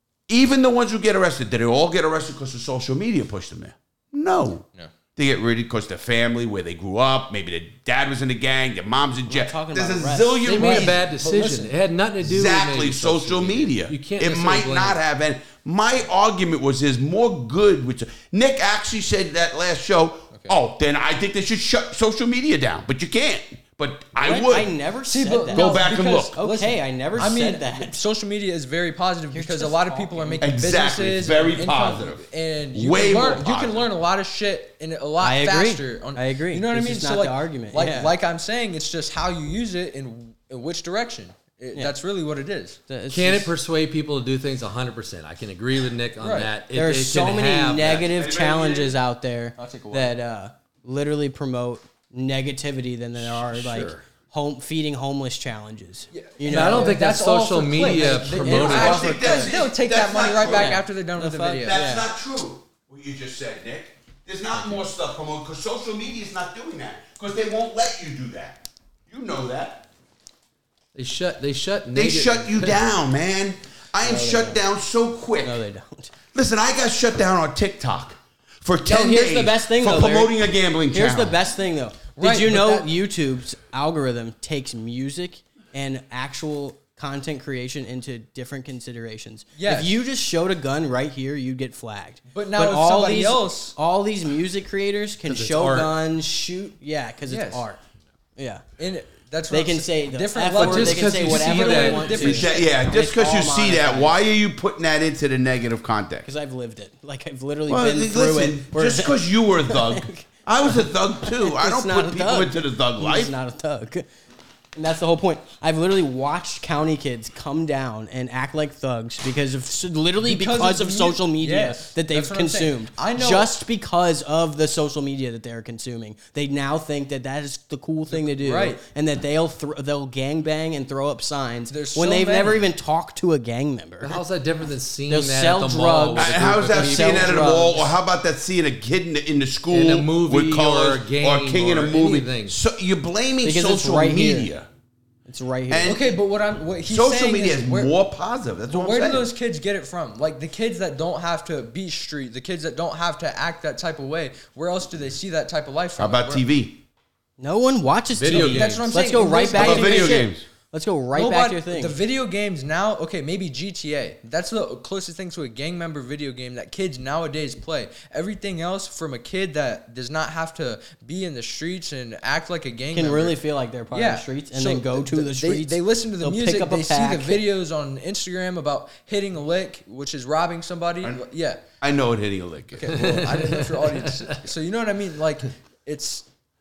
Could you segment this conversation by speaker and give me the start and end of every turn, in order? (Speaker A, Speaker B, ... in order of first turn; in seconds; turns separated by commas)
Speaker A: 0.3-4.6, Speaker A: 5.2-11.1, Speaker B: 9.3-10.8, Speaker C: 10.4-15.0, Speaker D: 10.7-11.7, Speaker A: 12.2-24.8, Speaker B: 24.2-28.0, Speaker D: 25.1-42.8, Speaker A: 25.5-26.4, Speaker B: 29.3-30.5, Speaker A: 30.4-33.9, Speaker B: 35.2-38.1, Speaker B: 42.9-43.5, Speaker C: 43.1-48.0, Speaker D: 46.2-46.5, Speaker B: 46.7-57.0, Speaker A: 47.8-49.0, Speaker D: 49.6-50.1, Speaker C: 53.2-54.0, Speaker D: 56.1-61.8, Speaker C: 56.4-59.1, Speaker B: 57.8-59.5, Speaker A: 58.5-60.8, Speaker B: 60.4-62.1, Speaker A: 61.6-69.8, Speaker C: 70.9-72.8, Speaker A: 71.9-75.6, Speaker B: 74.0-74.6, Speaker B: 75.4-76.1, Speaker A: 76.3-81.4, Speaker B: 78.8-80.3, Speaker B: 80.9-97.8, Speaker D: 82.2-82.9, Speaker D: 89.6-90.0, Speaker D: 92.3-93.7, Speaker C: 95.2-96.0, Speaker D: 97.3-97.7, Speaker B: 98.4-98.6, Speaker D: 98.8-102.7, Speaker B: 99.5-104.2, Speaker C: 100.5-102.4, Speaker A: 102.2-106.3, Speaker B: 106.2-114.1, Speaker A: 107.7-113.3, Speaker B: 114.7-134.2, Speaker D: 120.2-123.5, Speaker D: 128.1-128.8, Speaker D: 131.7-132.7, Speaker C: 134.0-137.8, Speaker B: 135.1-137.8, Speaker A: 136.2-144.7, Speaker C: 139.7-142.6, Speaker B: 143.4-144.5, Speaker B: 145.3-146.0, Speaker A: 145.7-146.1, Speaker D: 145.8-147.9, Speaker A: 146.8-149.3, Speaker D: 148.7-156.4, Speaker A: 156.0-156.8, Speaker B: 157.4-161.9, Speaker C: 158.1-158.9, Speaker D: 158.3-160.3, Speaker A: 159.5-160.4, Speaker D: 161.1-173.4, Speaker B: 172.9-177.4, Speaker D: 173.9-181.6, Speaker A: 181.8-183.1, Speaker D: 182.7-186.2, Speaker C: 182.9-184.4